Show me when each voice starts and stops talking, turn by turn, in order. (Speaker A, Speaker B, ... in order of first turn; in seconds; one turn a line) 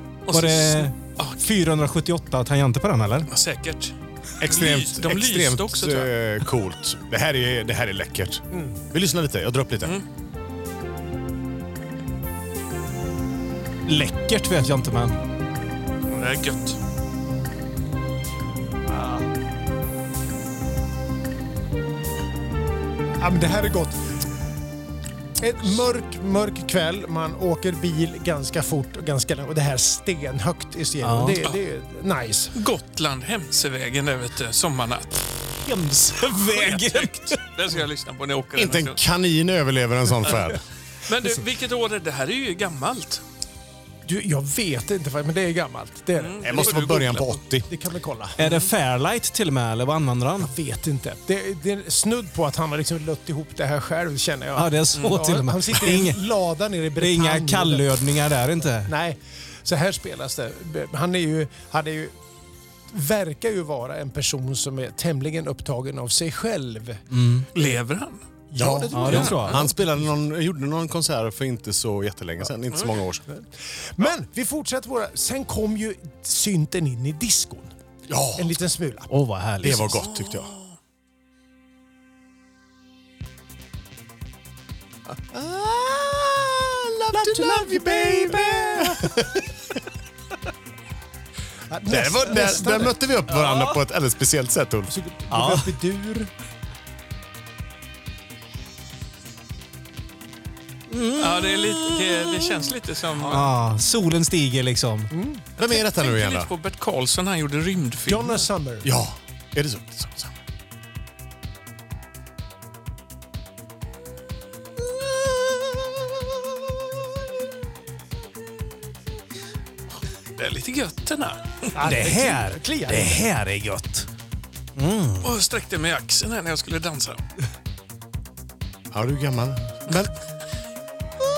Speaker A: 0.3-1.5
Speaker B: 0.3-3.3
Speaker A: 3.3-6.1
Speaker C: 4.4-10.0
Speaker D: 8.5-8.8
Speaker B: 13.9-15.2
Speaker A: 16.1-16.8
Speaker D: 18.9-19.2
Speaker D: 23.2-24.0
Speaker D: 25.4-32.5
Speaker B: 31.0-31.4
Speaker A: 32.5-35.3
Speaker B: 35.6-37.4
Speaker A: 36.2-39.0
Speaker C: 38.6-40.6
Speaker A: 41.1-43.2
Speaker D: 44.0-46.9
Speaker A: 46.2-47.4
Speaker C: 46.4-47.7
Speaker D: 47.7-48.4
Speaker B: 48.4-50.5
Speaker A: 48.4-48.7
Speaker D: 50.4-58.0
Speaker B: 54.5-56.2
Speaker B: 57.0-58.9
Speaker D: 58.8-62.1
Speaker D: 62.9-67.1
Speaker B: 67.1-67.5
Speaker A: 67.5-68.2
Speaker D: 68.5-69.6
Speaker C: 68.5-73.2
Speaker B: 68.9-69.7
Speaker A: 69.0-69.6
Speaker A: 72.7-73.0
Speaker D: 73.3-77.8
Speaker C: 78.1-78.6
Speaker D: 78.4-79.1
Speaker B: 79.1-80.0
Speaker C: 79.6-80.5
Speaker A: 79.9-80.8
Speaker C: 85.3-89.5
Speaker D: 87.3-88.9
Speaker D: 91.7-93.0
Speaker C: 91.9-94.9
Speaker B: 93.3-93.8
Speaker D: 94.9-96.3
Speaker B: 95.3-95.7
Speaker B: 100.9-102.5
Speaker A: 101.2-103.5
Speaker B: 103.2-105.1
Speaker D: 105.1-105.4
Speaker C: 105.6-106.5
Speaker A: 105.6-108.5
Speaker D: 108.1-108.9
Speaker C: 108.8-110.3
Speaker A: 120.3-121.7
Speaker D: 121.8-123.2
Speaker B: 121.8-124.1
Speaker B: 124.8-125.3
Speaker A: 125.2-127.2
Speaker C: 128.9-130.1